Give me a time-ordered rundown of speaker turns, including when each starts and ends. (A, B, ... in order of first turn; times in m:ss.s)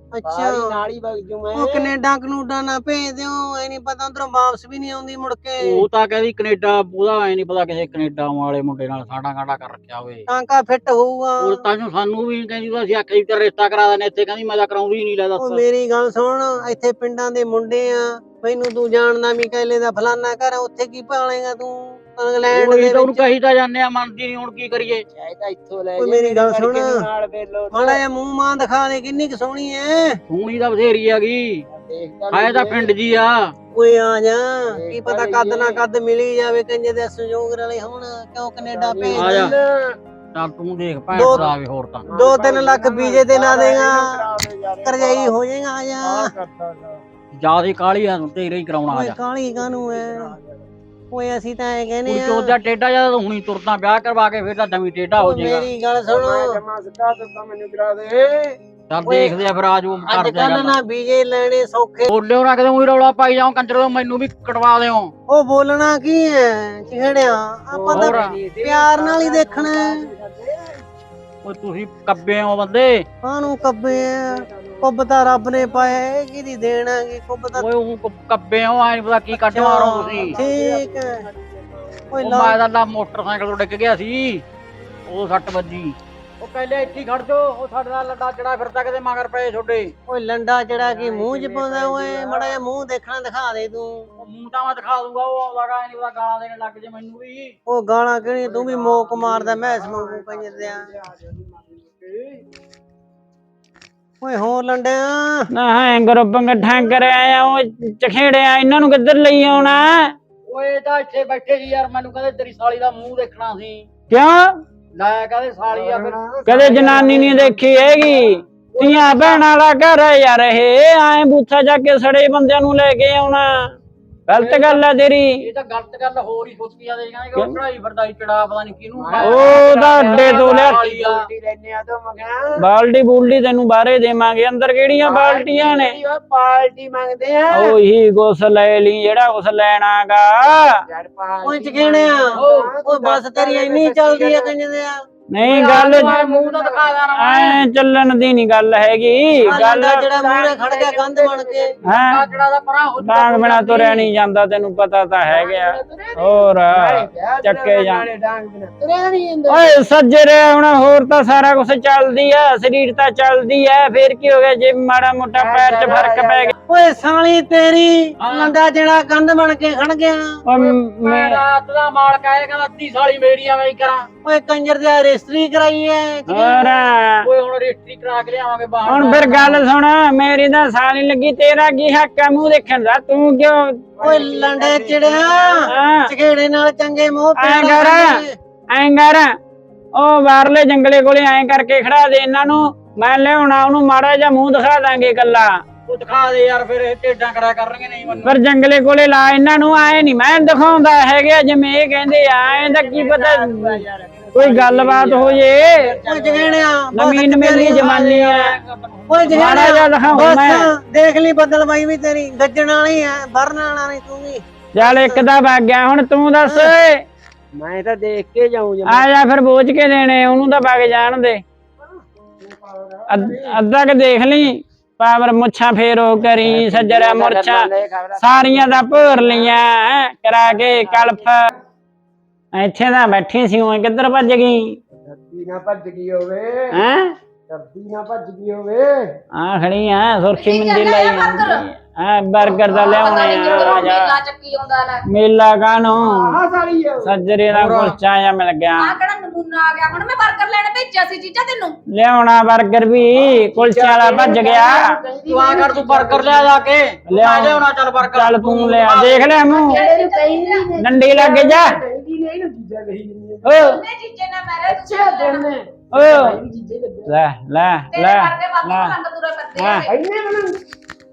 0:00.1-0:00.7 A
0:00.2-0:01.9 B
0:01.5-0:05.9 A
0:05.7-0:10.2 C
0:10.3-0:11.6 A
0:11.4-0:15.6 C
0:15.4-0:23.4 A
0:22.5-0:25.0 C
0:25.1-0:28.0 B
0:26.0-0:26.9 A
0:27.7-0:30.2 A
0:30.3-0:31.6 C
0:31.7-0:33.0 B
0:32.3-0:33.5 C
0:33.7-0:39.5 A
0:34.7-0:35.8 B
0:38.6-0:40.0 B
0:39.2-0:39.5 C
0:40.3-0:42.0 C
0:41.1-0:41.5 A
0:42.0-0:45.3 B
0:42.1-0:44.0 A
0:44.8-0:46.3 A
0:46.0-0:47.0 B
0:47.4-0:49.1 C
0:48.9-0:50.3 A
0:49.5-0:50.6 B
0:51.1-0:52.5 A
0:52.1-0:55.6 C
0:55.2-0:56.6 A
0:56.0-0:58.6 B
0:58.9-1:00.7 C
0:59.0-0:59.4 A
1:00.0-1:02.1 A
1:02.1-1:05.1 C
1:05.3-1:09.9 A
1:06.9-1:10.8 B
1:08.0-1:08.3 C
1:11.4-1:13.0 C
1:13.2-1:17.7 A
1:13.4-1:16.0 B
1:17.6-1:20.3 C
1:19.4-1:21.1 A
1:19.8-1:22.6 B
1:22.1-1:22.6 A
1:22.2-1:24.4 C
1:25.1-1:29.9 C
1:30.1-1:34.1 A
1:30.7-1:32.6 B
1:34.2-1:37.5 C
1:37.7-1:40.8 A
1:38.2-1:42.4 B
1:44.2-1:45.5 A
1:45.5-1:50.1 D
1:50.5-1:53.9 C
1:54.1-1:54.6 D
1:55.0-1:56.1 C
1:55.7-1:58.3 B
1:56.4-2:03.8 D
1:58.7-1:59.4 C
2:04.3-2:05.5 D
2:04.4-2:04.8 C
2:05.4-2:09.2 C
2:07.3-2:07.6 D
2:09.0-2:12.6 B
2:09.2-2:10.8 D
2:09.5-2:10.7 E
2:12.6-2:16.0 D
2:15.0-2:17.8 B
2:17.5-2:20.8 D
2:20.9-2:24.6 B
2:21.4-2:25.0 A
2:25.3-2:26.1 D
2:25.4-2:25.9 E
2:25.6-2:27.6 C
2:25.6-2:27.1 B
2:27.1-2:30.1 D
2:29.4-2:31.8 B
2:29.4-2:31.7 A
2:31.8-2:32.2 D
2:32.1-2:33.5 C
2:33.0-2:38.0 D
2:35.3-2:39.8 B
2:39.5-2:46.5 D
2:45.3-2:46.5 B
2:46.7-2:50.4 A
2:48.2-2:48.5 C
2:50.4-2:51.4 D
2:51.2-2:54.1 C
2:54.2-2:56.9 A
2:56.3-2:57.3 D
2:57.2-2:59.2 C
2:58.8-3:03.7 D
3:04.0-3:05.7 B
3:04.0-3:08.3 A
3:05.6-3:06.1 D
3:07.4-3:09.3 D
3:09.9-3:15.5 D
3:15.9-3:18.3 C
3:18.2-3:23.8 D
3:22.2-3:26.8 B
3:24.3-3:25.9 D
3:26.0-3:28.4 A
3:26.9-3:28.6 D
3:27.8-3:29.2 C
3:29.1-3:35.2 A
3:29.3-3:30.7 D
3:34.7-3:37.0 D
3:36.4-3:36.7 A
3:37.5-3:39.1 B
3:38.8-3:41.4 D
3:42.0-3:43.6 B
3:43.1-3:51.5 D
3:46.3-3:49.6 B
3:50.5-3:51.5 B
3:52.5-3:54.8 D
3:55.1-3:56.8 B
3:56.7-3:57.2 D
3:57.5-3:59.0 B
3:59.3-4:04.2 D
4:00.3-4:01.6 E
4:02.7-4:05.0 E
4:02.7-4:03.7 B
4:05.0-4:06.4 D
4:06.0-4:07.2 B
4:07.0-4:09.0 D
4:07.6-4:07.9 C
4:08.8-4:11.8 E
4:11.9-4:15.0 D
4:13.3-4:16.8 B
4:15.3-4:19.1 C
4:17.0-4:19.8 D
4:18.6-4:23.8 B
4:19.4-4:20.7 E
4:20.8-4:21.8 D
4:23.4-4:23.8 D
4:23.5-4:25.4 E
4:24.7-4:27.1 B
4:25.9-4:26.4 D
4:27.1-4:29.0 D
4:27.9-4:29.9 E
4:29.6-4:29.9 D
4:29.9-4:30.6 B